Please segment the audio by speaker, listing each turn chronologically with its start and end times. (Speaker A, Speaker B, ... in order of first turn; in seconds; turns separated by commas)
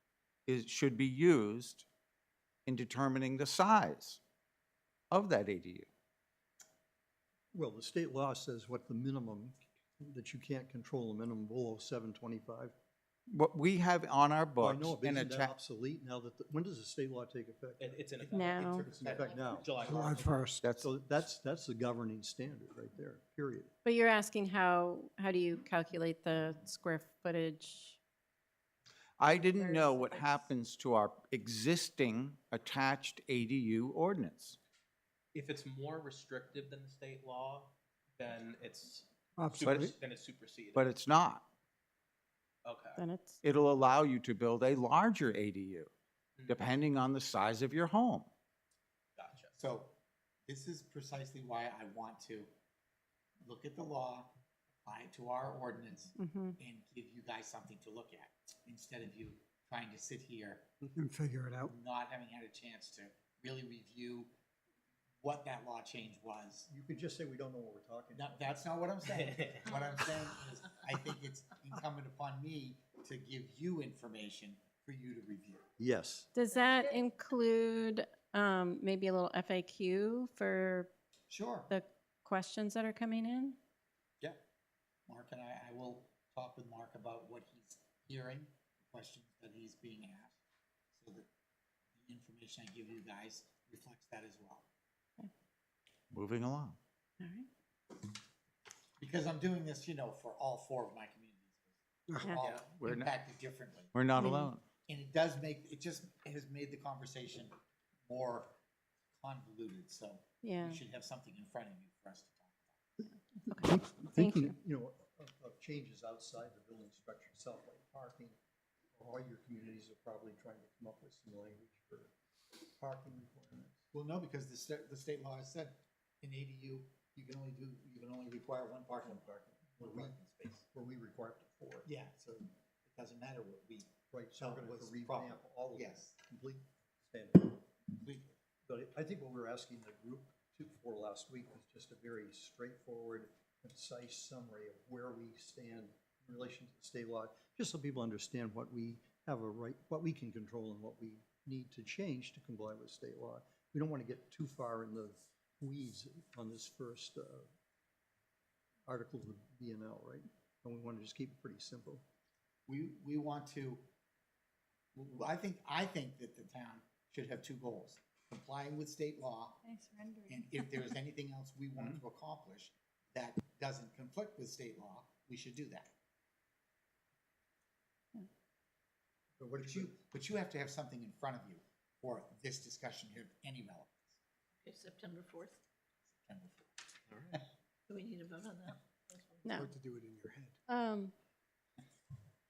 Speaker A: 0.5-1.9, Speaker A: 2.6-4.2, Speaker A: 5.1-5.9, Speaker B: 7.5-12.7, Speaker A: 13.3-15.5, Speaker B: 14.6-19.8, Speaker C: 17.8-20.5, Speaker D: 18.3-18.9, Speaker E: 19.9-20.6, Speaker A: 20.6-20.9, Speaker B: 20.8-23.7, Speaker D: 23.8-28.0, Speaker A: 29.2-34.6, Speaker D: 29.3-30.4, Speaker C: 35.3-40.9, Speaker E: 39.4-39.9, Speaker A: 39.5-39.9, Speaker A: 40.7-41.5, Speaker C: 42.6-43.0, Speaker D: 43.0-43.4, Speaker A: 43.4-45.9, Speaker A: 46.5-48.3, Speaker C: 49.2-49.5, Speaker F: 49.5-49.9, Speaker F: 50.5-52.5, Speaker F: 53.4-54.3, Speaker F: 54.8-60.7, Speaker D: 56.2-56.5, Speaker E: 61.0-61.7, Speaker F: 61.6-64.3, Speaker F: 65.2-66.7, Speaker B: 66.7-68.5, Speaker F: 68.1-75.6, Speaker C: 69.1-69.7, Speaker B: 75.8-76.3, Speaker D: 76.3-80.9, Speaker F: 81.3-81.7, Speaker D: 81.7-83.6, Speaker F: 85.1-90.3, Speaker F: 90.9-91.3, Speaker F: 92.0-94.7, Speaker A: 96.1-96.8, Speaker D: 97.2-97.5, Speaker F: 99.0-101.7, Speaker F: 102.2-103.9, Speaker A: 102.4-103.1, Speaker A: 103.9-104.6, Speaker D: 104.2-104.5, Speaker F: 104.9-107.5, Speaker F: 108.1-108.5, Speaker F: 109.2-112.6, Speaker D: 110.4-110.8, Speaker D: 113.3-114.5, Speaker B: 113.6-118.3, Speaker B: 118.9-122.1, Speaker B: 122.8-123.8, Speaker F: 123.9-130.6, Speaker B: 129.2-130.1, Speaker B: 130.7-131.9, Speaker F: 131.8-136.1, Speaker B: 134.1-137.6, Speaker F: 137.9-138.3, Speaker B: 138.7-157.5, Speaker B: 158.9-162.0, Speaker F: 162.7-163.8, Speaker F: 164.9-169.7, Speaker D: 169.7-170.2, Speaker F: 170.3-175.9, Speaker B: 179.4-180.0, Speaker F: 179.6-184.2, Speaker G: 184.7-185.5, Speaker F: 186.2-187.4, Speaker G: 187.9-189.6, Speaker D: 189.4-189.7, Speaker E: 189.6-190.5, Speaker D: 190.7-191.1